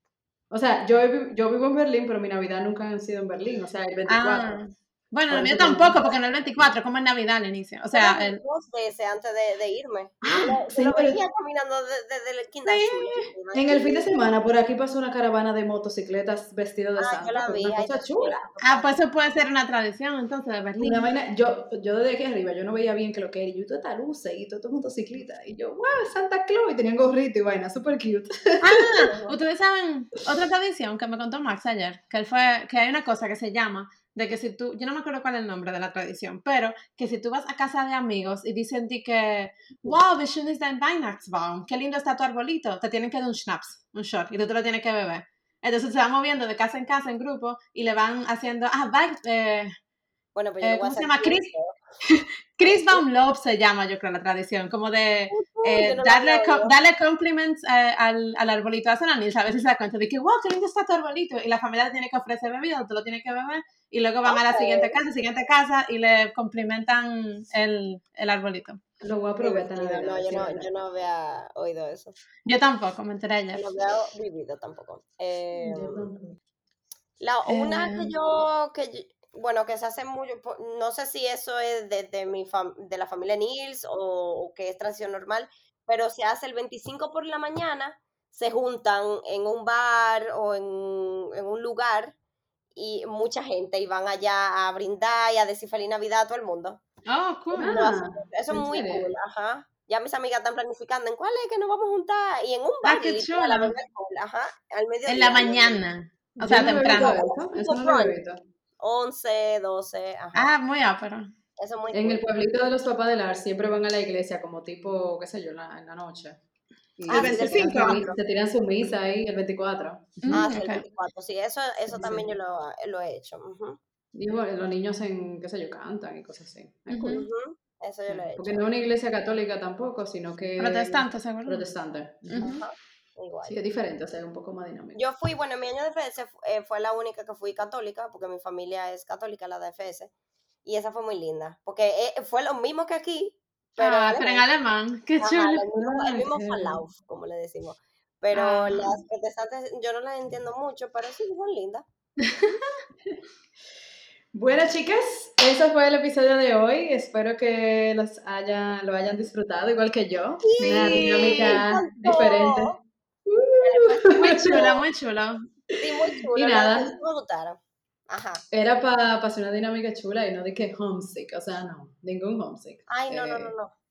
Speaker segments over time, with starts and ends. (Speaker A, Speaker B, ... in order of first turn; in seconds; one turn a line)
Speaker A: 0.5-4.5
Speaker B: 4.1-8.4
Speaker A: 5.3-6.0
Speaker C: 7.9-14.1
Speaker A: 10.2-11.2
Speaker B: 12.7-13.3
Speaker A: 13.5-18.4
Speaker C: 17.0-19.0
Speaker B: 18.6-21.1
Speaker A: 20.8-29.1
Speaker B: 28.6-49.7
Speaker C: 50.3-51.8
Speaker B: 50.6-51.5
Speaker B: 52.0-68.8
Speaker C: 52.6-53.0
Speaker C: 55.3-56.7
Speaker C: 64.2-65.0
Speaker A: 69.0-70.7
Speaker C: 69.4-72.2
Speaker B: 72.5-73.6
Speaker C: 73.5-76.0
Speaker A: 75.6-76.4
Speaker C: 77.2-92.2
Speaker B: 77.5-78.1
Speaker C: 92.7-96.8
Speaker B: 97.1-97.9
Speaker A: 97.5-99.1
Speaker C: 97.6-105.8
Speaker B: 102.8-103.7
Speaker B: 105.1-107.2
Speaker A: 106.4-108.4
Speaker C: 106.8-108.2
Speaker C: 108.8-110.5
Speaker B: 110.3-111.3
Speaker C: 111.6-112.2
Speaker A: 111.9-116.4
Speaker A: 117.0-120.5
Speaker C: 117.1-118.2
Speaker B: 117.1-118.0
Speaker B: 120.2-120.8
Speaker C: 120.3-123.8
Speaker A: 121.9-122.3
Speaker A: 124.1-127.2
Speaker B: 126.9-127.2
Speaker C: 127.1-128.7
Speaker A: 128.1-132.6
Speaker B: 130.6-131.7
Speaker B: 132.3-132.6
Speaker C: 132.4-133.6
Speaker A: 133.4-135.0
Speaker C: 134.9-140.1
Speaker C: 140.6-144.4
Speaker B: 143.8-145.6
Speaker C: 145.2-151.8
Speaker A: 145.8-146.8
Speaker B: 148.3-149.0
Speaker B: 152.2-152.6
Speaker A: 154.3-162.7
Speaker C: 160.4-162.8
Speaker B: 160.6-161.6
Speaker A: 163.2-164.7
Speaker C: 163.6-164.8
Speaker B: 164.2-165.4
Speaker A: 165.7-166.9
Speaker C: 165.8-168.4
Speaker A: 168.5-173.5
Speaker C: 172.9-173.7